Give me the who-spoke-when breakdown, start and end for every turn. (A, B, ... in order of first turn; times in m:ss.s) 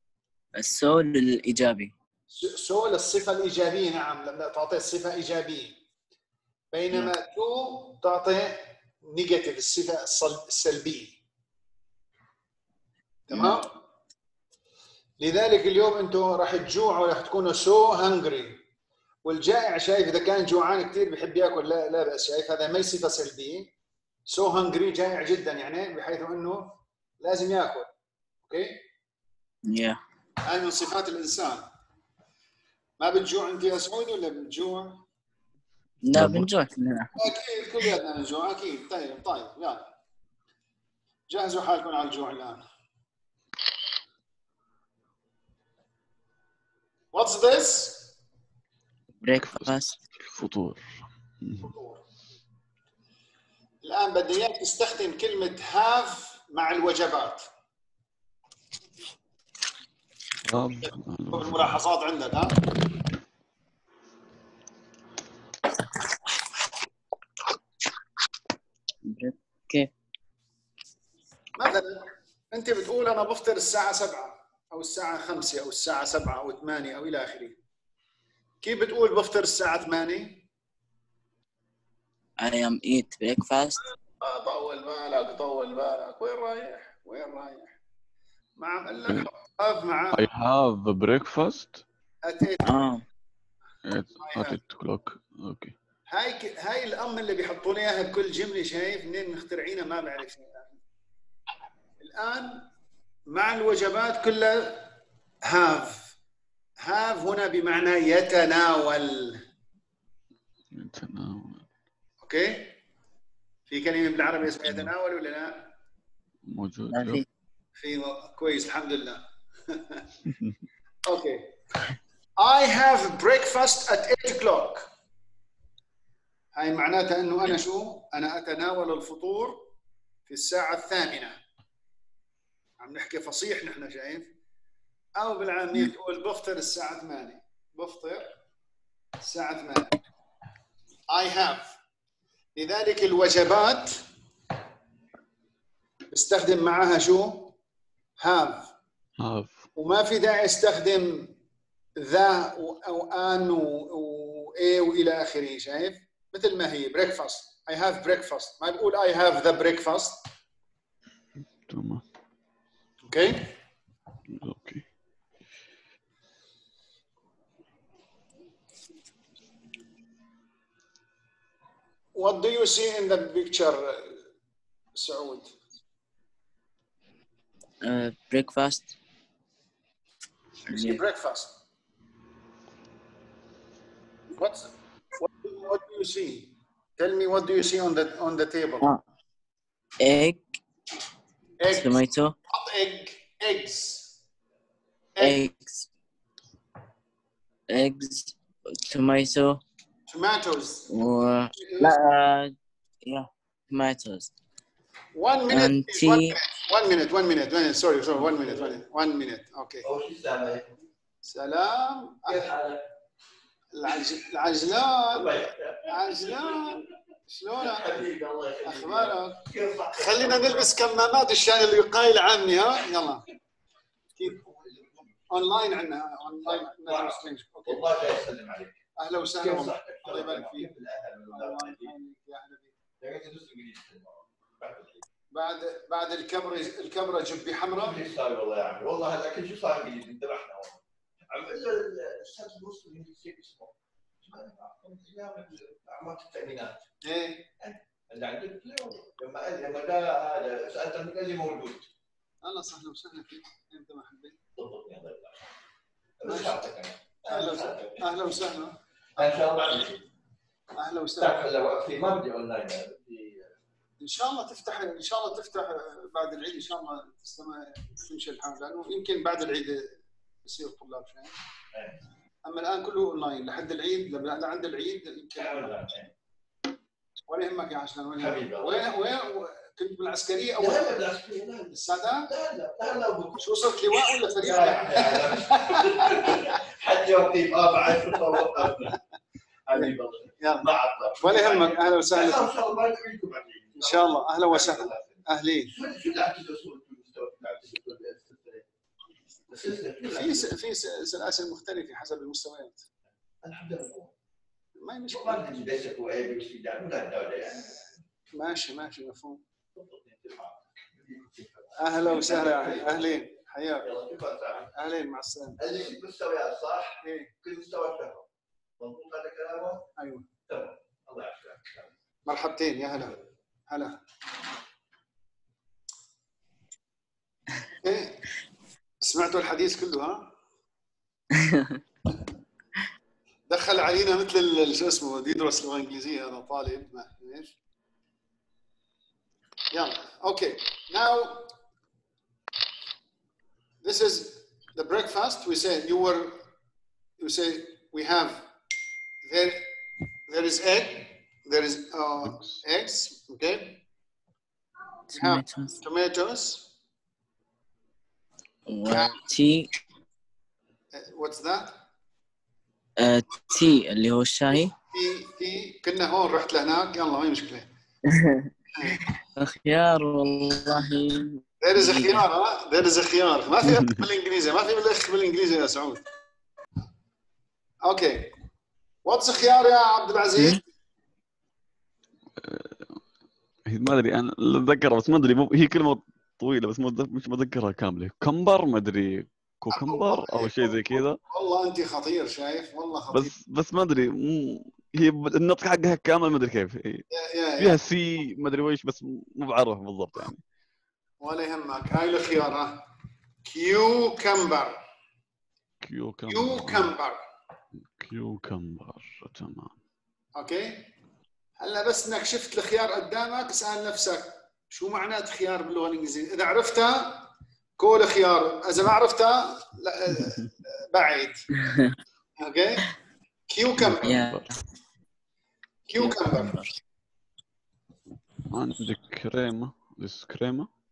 0:00.5-0:01.9 A
0:02.3-0:05.8 B
0:06.7-0:11.2 B
0:13.3-0:13.7 B
0:13.3-0:13.6 A
0:15.2-0:18.6 B
0:19.2-0:23.7 B
0:24.3-0:27.9 B
0:28.5-0:28.8 B
0:29.7-0:30.0 A
0:30.4-0:31.7 B
0:33.0-0:35.0 B
0:36.0-0:37.2 A
0:36.1-0:36.5 C
0:37.2-0:39.9 B
0:41.3-0:42.6 B
0:47.1-0:48.2 B
0:49.2-0:50.0 A
0:49.3-0:51.7 C
0:51.6-0:52.0 B
0:53.8-0:57.5 B
1:00.4-1:01.8 C
1:01.3-1:02.6 B
1:09.0-1:09.9 A
1:11.6-1:17.6 B
1:18.6-1:20.4 B
1:22.4-1:23.8 A
1:24.1-1:27.8 B
1:28.6-1:30.3 B
1:30.1-1:31.8 C
1:32.2-1:32.8 B
1:32.6-1:33.0 A
1:33.8-1:35.8 C
1:34.2-1:34.6 B
1:36.1-1:40.7 B
1:42.0-1:42.7 B
1:43.3-1:46.2 B
1:46.8-1:49.4 B
1:50.7-1:51.7 C
1:52.2-1:52.8 B
1:53.7-1:55.7 B
1:54.6-1:54.9 C
1:56.5-1:57.2 C
1:56.9-1:57.2 A
1:57.8-2:00.1 B
2:01.1-2:01.5 B
2:02.4-2:04.9 B
2:06.6-2:09.7 B
2:10.3-2:11.4 B
2:12.8-2:14.3 B
2:15.2-2:18.3 B
2:19.2-2:20.0 B
2:21.1-2:21.7 B
2:22.6-2:24.0 B
2:26.1-2:27.6 B
2:28.2-2:28.7 B
2:29.2-2:29.6 C
2:29.8-2:31.3 B
2:32.0-2:40.2 B
2:41.7-2:42.0 C
2:43.0-2:43.6 B
2:44.3-2:44.8 C
2:52.1-2:54.2 B
2:55.0-2:55.6 B
2:57.8-2:59.0 A
3:00.7-3:01.6 B
3:00.7-3:01.0 A
3:04.4-3:08.9 B
3:10.0-3:10.4 A
3:11.6-3:14.1 B
3:11.7-3:12.4 A
3:15.2-3:15.5 B
3:15.2-3:15.9 A
3:17.7-3:19.6 A
3:20.1-3:20.9 B
3:20.9-3:22.5 A
3:21.6-3:22.0 B
3:23.0-3:24.3 A
3:25.1-3:29.9 B
3:25.5-3:26.4 A
3:28.2-3:28.8 D
3:29.8-3:30.8 D
3:31.2-3:32.5 B
3:32.3-3:32.8 D
3:33.7-3:38.0 B
3:35.1-3:36.8 D
3:37.6-3:40.8 D
3:38.6-3:43.3 B
3:44.2-3:45.3 D
3:45.3-3:47.9 B
3:46.3-3:48.8 D
3:49.0-3:50.7 B
3:49.4-3:51.9 D
3:51.3-3:52.8 B
3:53.0-3:55.0 D
3:55.3-3:58.0 B
3:57.8-4:06.8 D
4:07.0-4:07.5 B
4:07.6-4:11.9 D
4:12.4-4:14.4 B
4:14.6-4:15.4 D
4:16.2-4:18.0 D
4:16.2-4:16.6 B
4:17.3-4:19.6 B
4:19.2-4:20.0 D
4:20.8-4:21.5 B
4:21.2-4:23.5 D
4:24.0-4:31.4 B
4:32.4-4:35.8 B
4:35.4-4:36.1 D
4:37.3-4:41.0 B
4:38.2-4:38.9 D
4:40.6-4:49.0 D
4:41.7-4:42.3 B
4:43.4-4:46.6 B
4:47.9-4:49.0 B
4:49.7-4:58.7 D
4:49.7-4:50.7 B
4:51.2-4:52.5 B
4:53.8-4:55.7 B
4:59.5-5:00.6 D
5:00.1-5:02.8 B
5:03.4-5:04.1 D
5:04.8-5:05.6 B
5:05.1-5:08.0 D
5:08.3-5:09.4 B
5:09.7-5:13.1 D
5:11.8-5:13.9 B
5:13.8-5:14.7 D
5:14.7-5:15.8 B
5:15.6-5:18.3 D
5:17.0-5:17.3 B
5:18.8-5:19.9 D
5:20.0-5:20.3 B
5:20.5-5:21.9 D
5:22.3-5:23.2 B
5:23.7-5:24.0 B
5:27.8-5:28.2 B
5:29.0-5:30.3 B
5:31.4-5:31.8 A
5:33.5-5:37.6 B
5:39.7-5:41.5 B
5:43.8-5:46.4 B
5:47.2-5:48.5 B
5:49.2-5:49.6 B
5:50.3-5:53.8 B
5:52.2-5:52.6 C
5:55.1-5:55.8 A
5:55.2-5:56.7 B
5:58.7-5:59.7 A
5:58.9-5:59.2 B
6:00.9-6:01.8 B
6:03.0-6:04.7 A
6:04.9-6:07.7 B
6:08.1-6:08.5 A
6:08.8-6:09.0 B
6:09.4-6:12.2 A
6:11.6-6:16.0 B
6:17.8-6:18.3 B
6:19.0-6:20.6 B
6:22.4-6:23.0 C
6:23.7-6:31.2 C
6:29.7-6:33.4 B
6:33.1-6:37.0 C
6:37.1-6:37.8 B
6:37.6-6:40.4 C
6:41.2-6:42.8 B
6:43.4-6:44.8 B
6:45.8-6:46.9 C
6:46.3-6:47.2 B
6:48.0-6:49.8 C
6:50.4-6:50.9 B
6:51.6-7:01.4 B
7:01.7-7:02.0 A
7:02.4-7:02.9 B
7:03.5-7:04.3 B
7:03.8-7:04.5 C
7:04.0-7:04.6 A
7:05.9-7:06.6 B
7:06.0-7:06.7 A
7:08.5-7:10.7 C